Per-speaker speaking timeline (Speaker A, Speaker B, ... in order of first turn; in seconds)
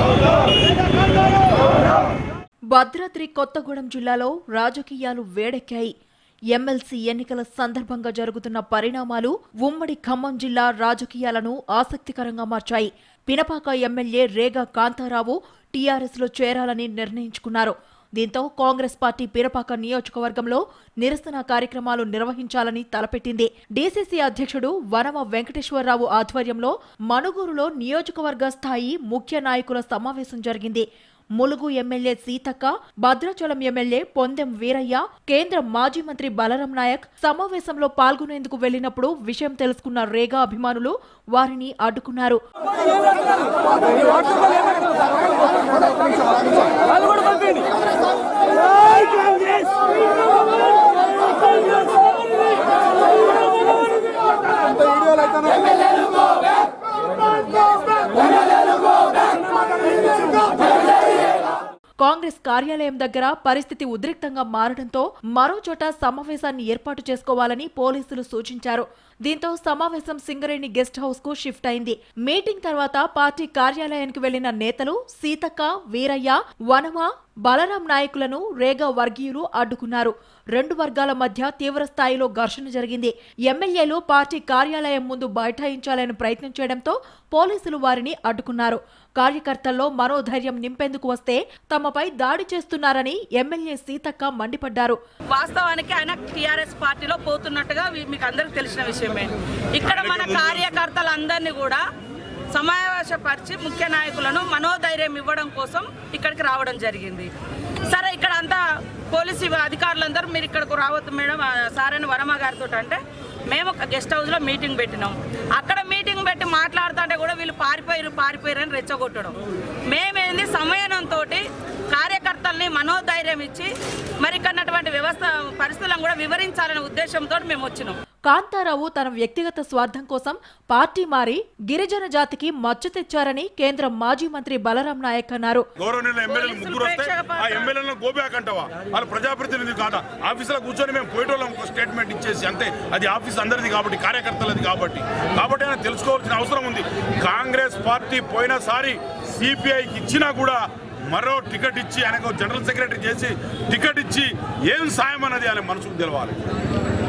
Speaker A: 2.7-5.9, 6.5-30.8, 31.4-42.4, 62.0-95.0, 128.2-135.7
Speaker B: 95.3-101.8, 102.5-107.3, 107.9-119.3, 119.9-128.0, 136.3-137.7
Speaker C: 99.8-100.7, 135.8-156.4